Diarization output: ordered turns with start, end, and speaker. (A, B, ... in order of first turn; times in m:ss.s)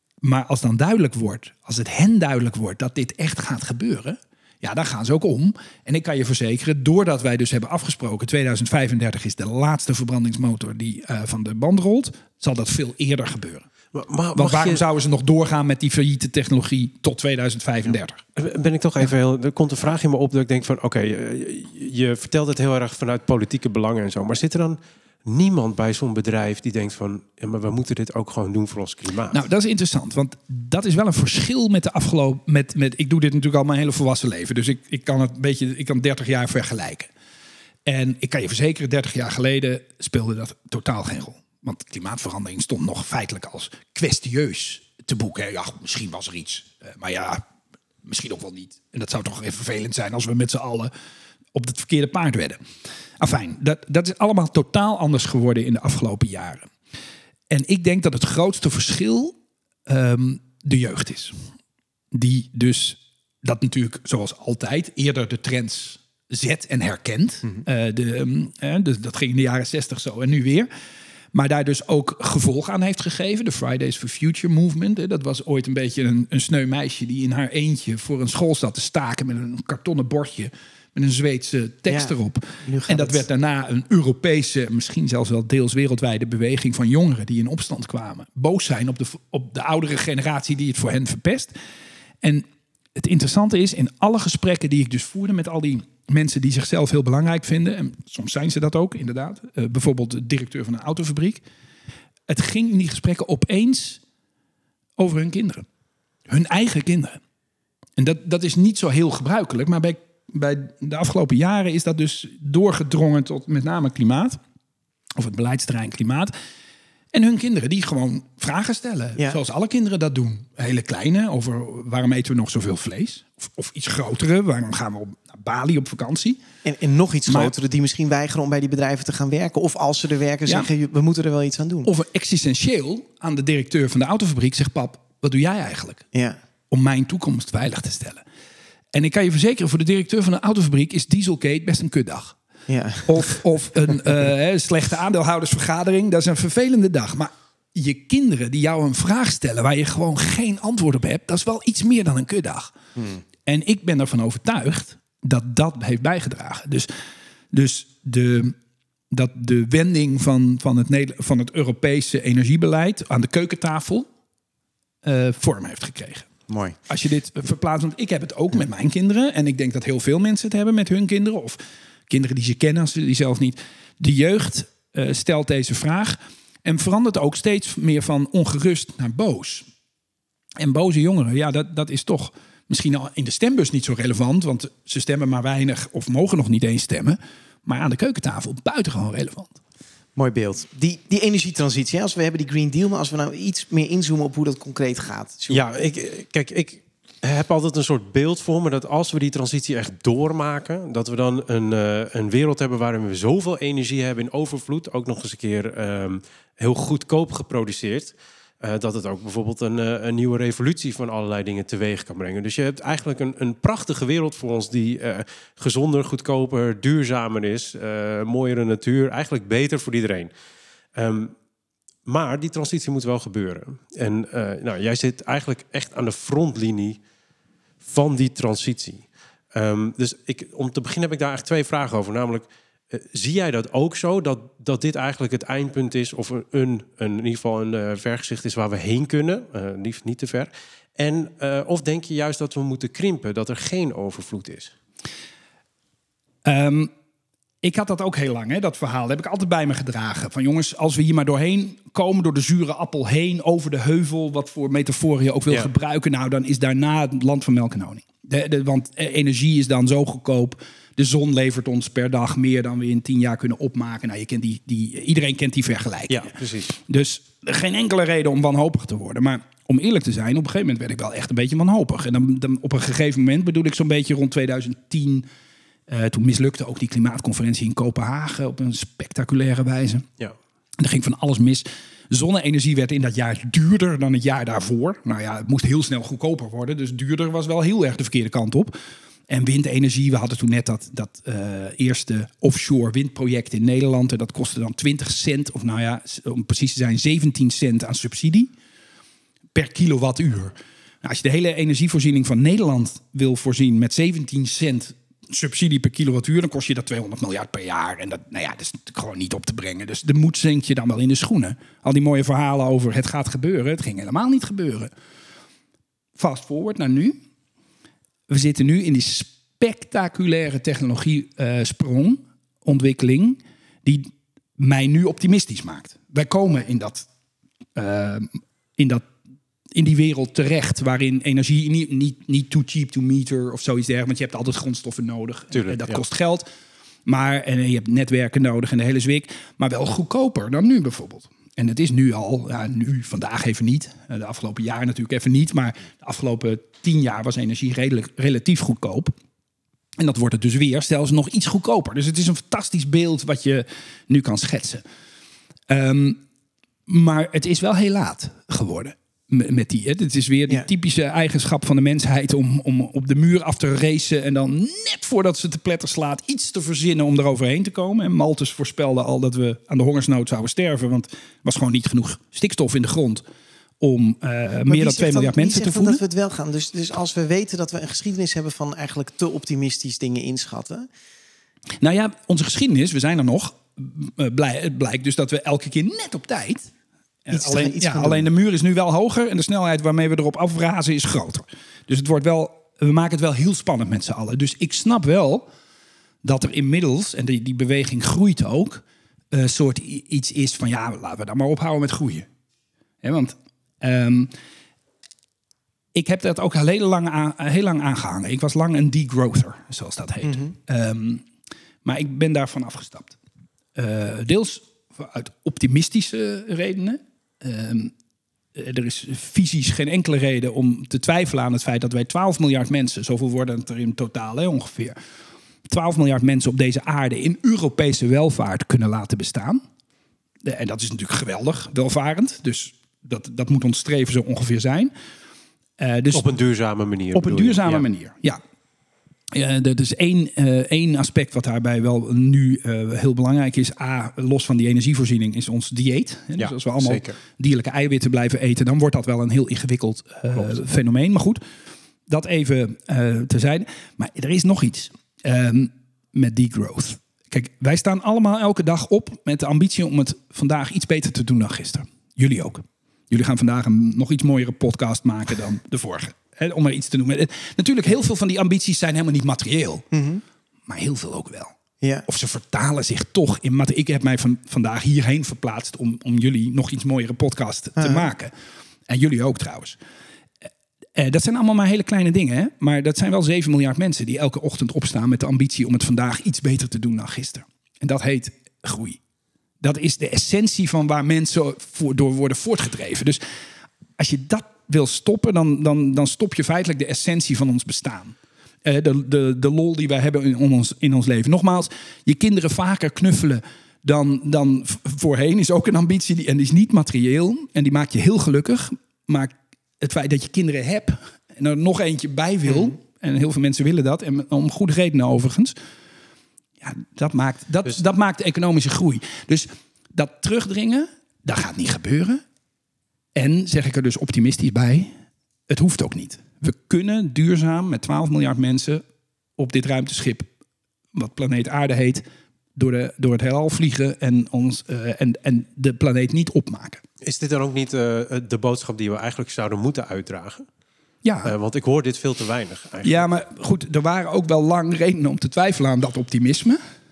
0:00.2-0:13.7 A
0:13.9-0:14.8 B
0:14.4-0:18.2 A
0:18.4-0:29.4 B
0:29.3-0:37.1 A
0:37.9-0:47.4 A
0:48.0-0:50.9 A
0:51.5-0:52.6 A
0:53.2-0:56.7 A
0:57.5-0:59.4 A
0:59.9-1:01.4 A
1:02.1-1:10.7 A
1:11.3-1:31.5 A
1:21.9-1:22.1 C
1:22.6-1:23.2 C
1:33.0-1:41.4 A
1:42.3-1:44.0 A
1:45.0-1:45.6 A
1:46.3-1:47.2 A
1:48.0-1:54.4 A
1:55.2-1:56.3 A
1:57.1-2:06.4 A
2:06.6-2:11.9 C
2:07.3-2:07.5 A
2:11.8-2:16.0 A
2:16.7-2:18.2 A
2:18.9-2:22.4 A
2:22.7-2:23.4 C
2:23.0-2:32.8 A
2:33.0-2:33.2 C
2:33.5-2:36.9 A
2:37.5-2:38.6 A
2:39.1-2:44.1 A
2:45.0-2:46.3 A
2:46.5-2:46.8 C
2:46.9-2:59.7 A
3:00.6-3:09.6 A
3:10.2-3:15.6 C
3:15.5-3:40.3 B
3:41.0-3:41.3 B
3:42.1-3:47.0 B
3:47.8-4:04.8 B
4:06.4-4:06.9 A
4:07.6-4:35.3 A
4:26.1-4:26.7 B
4:35.9-4:40.1 A
4:40.8-4:48.8 A
4:49.3-4:58.5 A
4:59.6-5:14.9 A
5:16.2-5:17.2 A
5:18.3-5:27.1 A
5:27.8-5:29.1 A
5:29.7-5:36.5 A
5:35.5-5:36.0 B
5:37.1-5:49.1 A
5:50.0-5:54.8 A
5:55.7-5:56.2 A
5:56.9-6:13.2 A
6:13.8-6:16.0 A
6:14.7-6:20.9 C
6:21.8-6:26.7 A
6:27.3-6:35.5 A
6:27.3-6:28.3 C
6:36.2-6:42.3 A
6:43.0-6:44.4 A
6:45.9-6:51.3 A
6:50.2-6:50.5 C
6:51.8-6:53.2 A
6:53.8-6:57.9 A
6:58.6-7:05.0 A
7:05.7-7:09.6 A
7:10.4-7:14.9 A
7:15.8-7:16.3 A
7:16.1-7:17.9 B
7:17.1-7:18.4 A
7:19.3-7:31.4 A
7:26.4-7:27.2 B
7:32.1-7:49.9 A
7:49.9-7:50.2 C
7:50.7-7:58.3 A
7:57.8-7:58.1 C
7:58.9-7:59.8 A
8:01.0-8:09.0 A
8:09.6-8:13.2 A
8:14.0-8:35.6 A
8:36.6-8:42.2 A
8:43.2-8:44.9 A
8:45.5-8:48.8 A
8:49.4-8:50.3 A
8:51.0-8:52.0 A
8:52.6-8:56.8 A
8:57.0-9:00.5 B
9:01.0-9:01.3 A
9:01.2-9:03.1 B
9:02.8-9:06.6 A